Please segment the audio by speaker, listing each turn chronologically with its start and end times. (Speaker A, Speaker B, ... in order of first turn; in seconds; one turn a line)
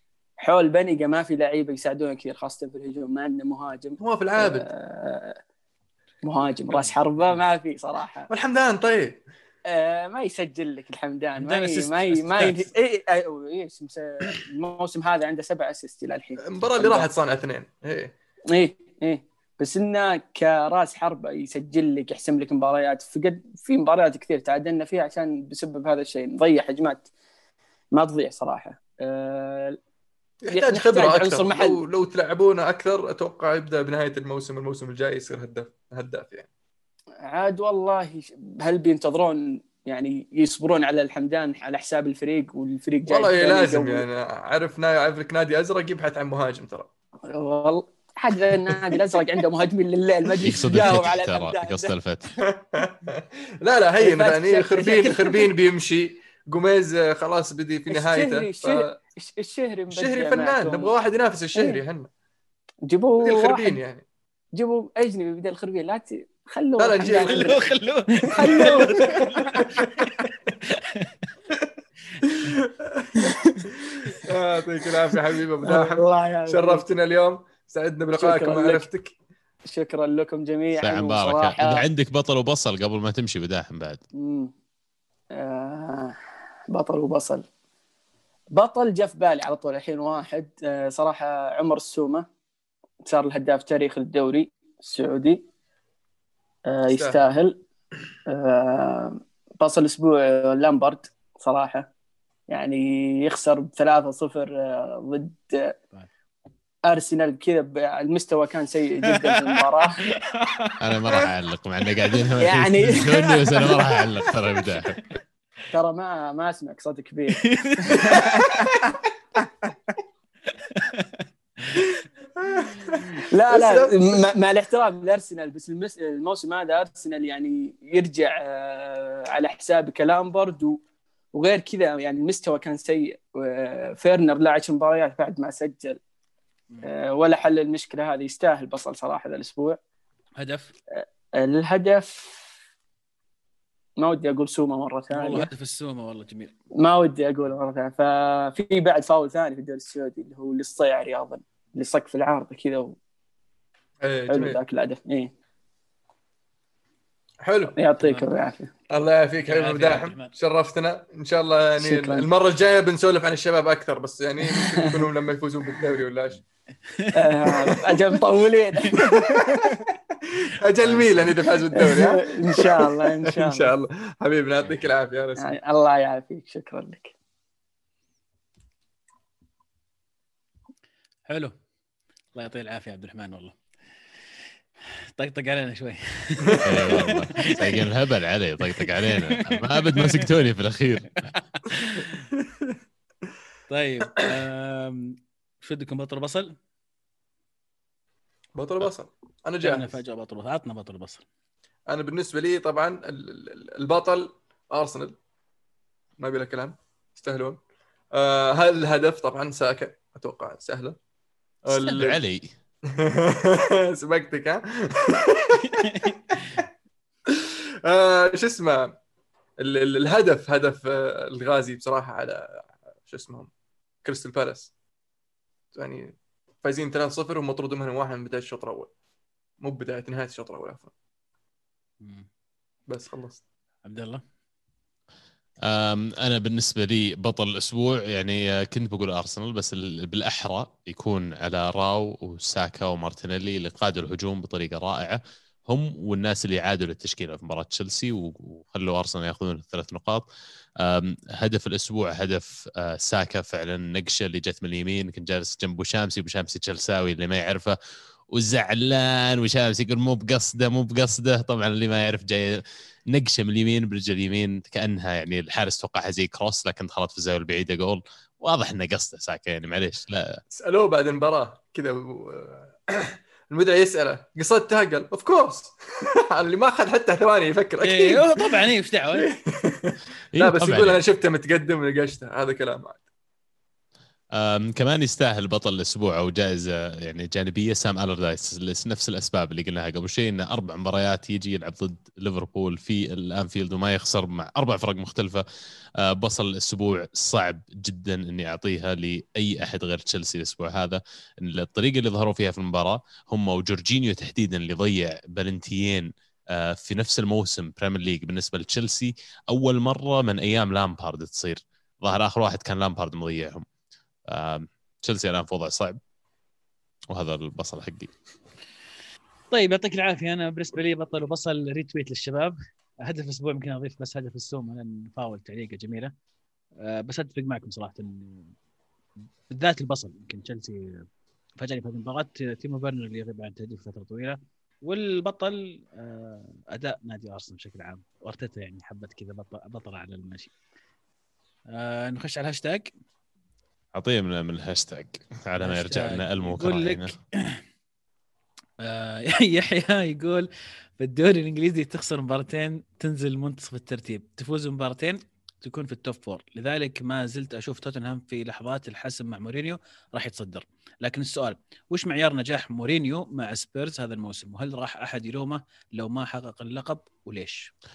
Speaker A: 0.4-5.4
Speaker B: 4.0-4.7
Speaker A: 6.2-8.3
Speaker C: 6.7-7.4
Speaker B: 8.3-9.2
Speaker A: 9.7-17.1
Speaker C: 11.4-12.7
Speaker B: 16.4-18.1
Speaker A: 18.5-27.1
Speaker A: 27.9-29.8
Speaker B: 30.4-36.5
Speaker A: 30.5-31.8
Speaker A: 37.2-44.1
Speaker B: 43.1-46.9
Speaker A: 47.3-52.0
Speaker B: 48.7-49.0
Speaker D: 50.4-52.3
Speaker B: 52.4-58.9
Speaker A: 54.0-55.5
Speaker A: 57.9-60.9
Speaker B: 59.9-62.1
Speaker A: 62.9-63.8
Speaker B: 63.2-64.0
Speaker A: 64.5-67.7
Speaker B: 66.8-67.6
Speaker C: 67.1-69.9
Speaker A: 68.2-69.3
Speaker B: 68.4-70.3
Speaker C: 70.6-71.1
Speaker B: 72.3-73.3
Speaker A: 73.2-74.3
Speaker B: 73.8-79.1
Speaker A: 75.6-76.8
Speaker A: 78.2-78.9
Speaker A: 79.7-81.9
Speaker D: 80.8-84.0
Speaker A: 84.1-84.5
Speaker A: 85.3-86.2
Speaker A: 86.7-87.5
Speaker A: 88.5-92.3
Speaker A: 93.0-95.5
Speaker A: 96.7-97.6
Speaker B: 96.9-97.2
Speaker A: 98.3-101.9
Speaker A: 102.5-105.8
Speaker A: 106.9-110.1
Speaker C: 109.9-110.8
Speaker D: 110.8-115.0
Speaker A: 112.4-113.8
Speaker A: 115.7-119.7
Speaker C: 117.4-118.1
Speaker B: 118.1-118.6
Speaker C: 120.5-121.9
Speaker B: 122.4-124.2
Speaker A: 123.3-130.8
Speaker A: 131.3-136.0
Speaker A: 136.8-139.8
Speaker C: 140.4-140.7
Speaker A: 140.9-142.5
Speaker A: 144.0-145.5
Speaker C: 145.1-146.5
Speaker A: 146.8-153.0
Speaker B: 154.0-154.6
Speaker A: 154.3-155.3
Speaker B: 157.4-157.8
Speaker A: 157.7-158.7
Speaker C: 158.0-158.3
Speaker B: 158.9-166.4
Speaker C: 159.4-160.3
Speaker A: 161.8-162.3
Speaker A: 164.5-165.1
Speaker C: 166.9-167.3
Speaker A: 167.1-169.8
Speaker B: 167.7-168.0
Speaker B: 169.2-169.7
Speaker B: 170.2-175.6
Speaker C: 170.8-171.3
Speaker A: 171.7-173.7
Speaker A: 175.4-177.1
Speaker C: 181.3-181.6
Speaker C: 182.3-183.6
Speaker C: 185.1-187.9
Speaker D: 186.6-191.1
Speaker C: 188.6-190.3
Speaker C: 191.2-192.2
Speaker B: 192.4-192.8
Speaker C: 193.7-196.6
Speaker B: 198.6-200.0
Speaker C: 199.6-201.2
Speaker B: 201.9-205.2
Speaker B: 206.2-207.6
Speaker B: 208.1-211.0
Speaker B: 211.6-212.2
Speaker D: 211.7-212.5
Speaker B: 212.9-216.4
Speaker C: 215.6-216.6
Speaker B: 217.3-218.9
Speaker B: 219.6-223.5
Speaker B: 224.0-224.7
Speaker B: 225.7-228.9
Speaker B: 229.6-230.9
Speaker C: 232.0-232.3
Speaker B: 232.9-233.4
Speaker C: 233.8-234.2
Speaker D: 235.6-250.3
Speaker D: 250.8-257.8
Speaker D: 258.3-270.4
Speaker B: 270.5-278.5
Speaker C: 277.8-279.3
Speaker B: 279.2-283.0
Speaker D: 280.3-281.0
Speaker D: 284.4-295.4
Speaker D: 296.0-313.7
Speaker D: 314.3-316.0
Speaker D: 317.1-318.1
Speaker C: 319.5-326.1
Speaker C: 326.8-328.5
Speaker C: 329.5-331.1
Speaker C: 331.6-340.5
Speaker C: 341.7-342.9
Speaker D: 343.9-347.1
Speaker C: 345.6-347.6
Speaker C: 348.8-367.7